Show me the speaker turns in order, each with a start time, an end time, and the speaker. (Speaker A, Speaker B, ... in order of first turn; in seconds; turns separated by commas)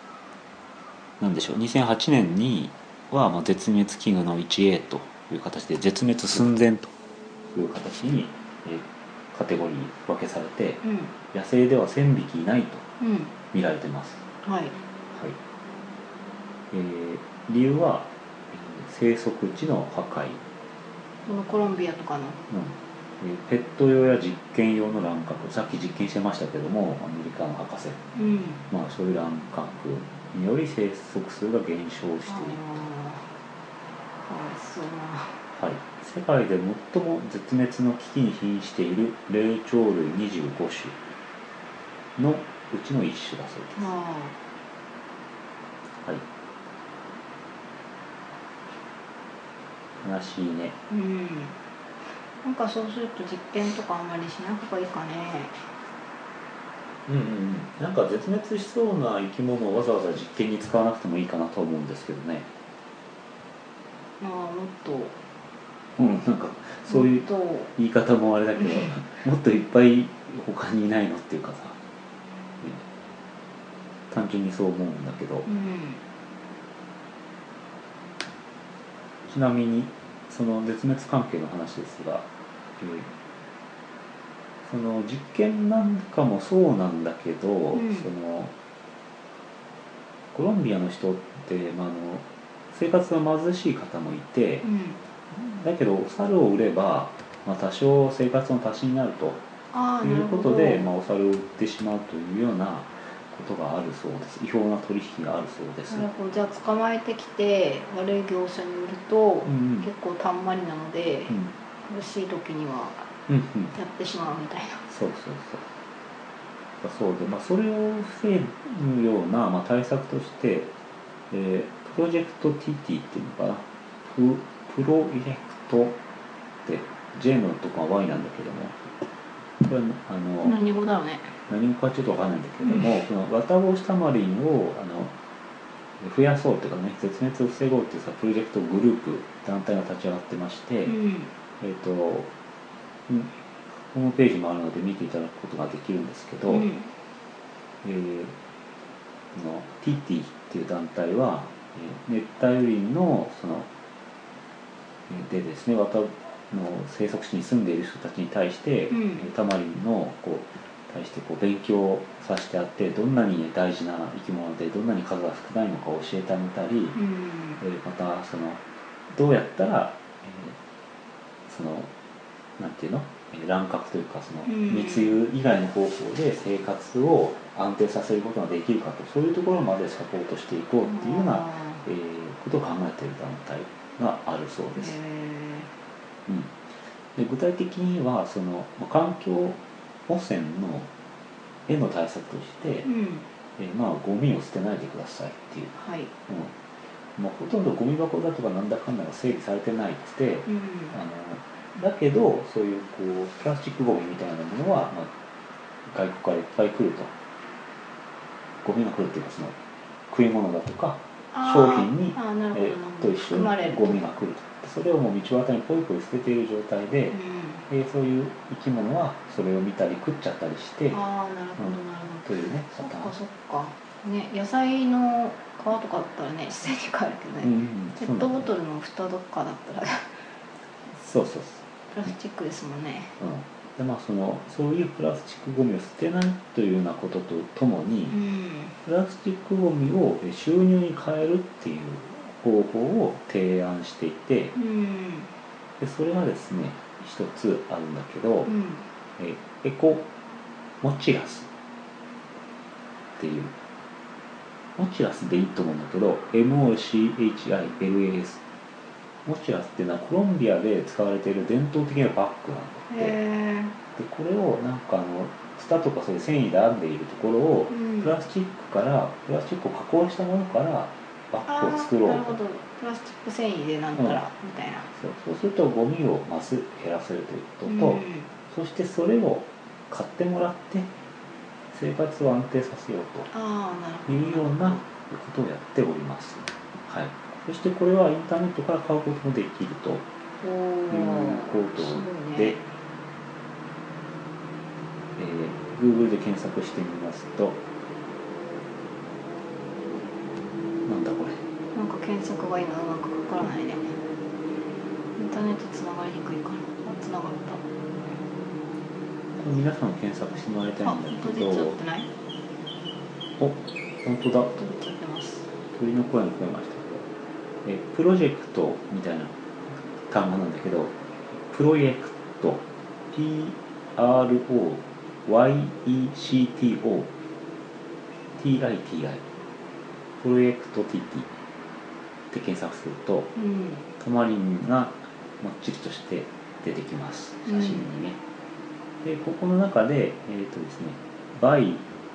Speaker A: 1.2-6.9, Speaker A: 7.5-12.8, Speaker B: 10.8-11.1, Speaker B: 13.0-13.3, Speaker A: 13.5-14.2, Speaker B: 14.4-14.8, Speaker A: 15.1-15.4, Speaker A: 16.7-20.4, Speaker B: 21.2-22.4, Speaker A: 22.5-28.0, Speaker B: 28.1-28.6, Speaker A: 28.7-32.6, Speaker B: 32.3-33.3, Speaker B: 34.2-35.4, Speaker A: 35.5-41.0, Speaker A: 42.1-43.8, Speaker B: 43.7-44.4, Speaker A: 50.0-50.8, Speaker B: 50.9-51.6, Speaker B: 52.4-55.6, Speaker A: 57.1-62.5, Speaker B: 64.2-65.2, Speaker A: 66.0-71.8, Speaker B: 66.9-67.7, Speaker B: 68.7-69.0, Speaker A: 74.1-75.5, Speaker B: 75.5-76.0, Speaker A: 79.2-82.3, Speaker A: 82.8-83.1, Speaker A: 84.6-88.5, Speaker B: 87.7-88.1, Speaker A: 90.3-94.7, Speaker B: 94.6-95.0, Speaker A: 95.3-99.4, Speaker B: 99.7-100.9, Speaker A: 100.0-106.1, Speaker B: 105.9-113.1, Speaker A: 109.5-109.9, Speaker A: 113.3-113.7, Speaker B: 113.7-114.8, Speaker A: 114.9-115.7, Speaker A: 116.8-120.7, Speaker A: 121.3-126.0, Speaker A: 126.6-128.8, Speaker A: 129.6-130.6, Speaker B: 130.4-131.3, Speaker A: 131.5-135.1, Speaker A: 136.0-140.9, Speaker B: 140.9-141.3, Speaker A: 141.6-142.3, Speaker A: 143.1-146.7, Speaker B: 146.5-146.9, Speaker A: 147.8-148.3, Speaker A: 149.3-153.7, Speaker A: 155.1-167.0, Speaker B: 158.9-159.2, Speaker B: 166.9-167.6, Speaker A: 167.6-170.6, Speaker A: 171.5-171.9, Speaker A: 172.6-185.0, Speaker B: 174.4-175.2, Speaker B: 180.8-181.8, Speaker B: 184.8-185.7, Speaker A: 186.2-186.6, Speaker A: 187.1-190.9, Speaker A: 191.7-192.9, Speaker B: 192.8-193.3, Speaker A: 193.6-195.7, Speaker B: 195.7-196.1, Speaker A: 196.3-196.5, Speaker A: 197.2-205.1, Speaker B: 200.5-200.9, Speaker A: 205.9-207.1, Speaker A: 208.6-209.6, Speaker A: 210.1-217.2, Speaker B: 211.3-214.0, Speaker B: 217.1-217.6, Speaker A: 217.7-221.0, Speaker B: 220.9-230.3, Speaker A: 221.6-223.1, Speaker A: 227.4-228.5, Speaker A: 230.9-231.6, Speaker B: 231.9-233.1, Speaker A: 233.2-238.2, Speaker B: 238.1-238.7, Speaker A: 238.8-244.5, Speaker B: 244.5-245.3, Speaker A: 245.8-248.5, Speaker B: 248.4-248.9, Speaker A: 249.2-250.1, Speaker A: 250.8-251.5, Speaker A: 253.2-253.5, Speaker A: 254.8-258.4, Speaker A: 259.2-263.2, Speaker B: 262.9-263.8, Speaker A: 263.9-272.4, Speaker B: 267.7-268.1, Speaker B: 271.5-274.9, Speaker A: 275.0-280.9, Speaker B: 277.7-278.3, Speaker A: 281.7-283.3, Speaker B: 283.3-284.8, Speaker A: 284.1-290.1, Speaker B: 290.4-292.6, Speaker A: 290.9-292.6, Speaker A: 295.1-297.6, Speaker A: 300.8-301.4, Speaker B: 301.7-303.9, Speaker B: 305.1-307.6, Speaker A: 309.4-311.8, Speaker B: 310.8-312.1, Speaker A: 313.4-314.5, Speaker B: 314.5-315.4, Speaker A: 315.7-317.1, Speaker A: 317.6-327.1, Speaker A: 328.3-329.2, Speaker A: 330.2-331.3, Speaker A: 332.3-333.3, Speaker B: 333.4-333.9, Speaker A: 334.0-338.2, Speaker B: 337.4-337.9, Speaker A: 339.0-341.9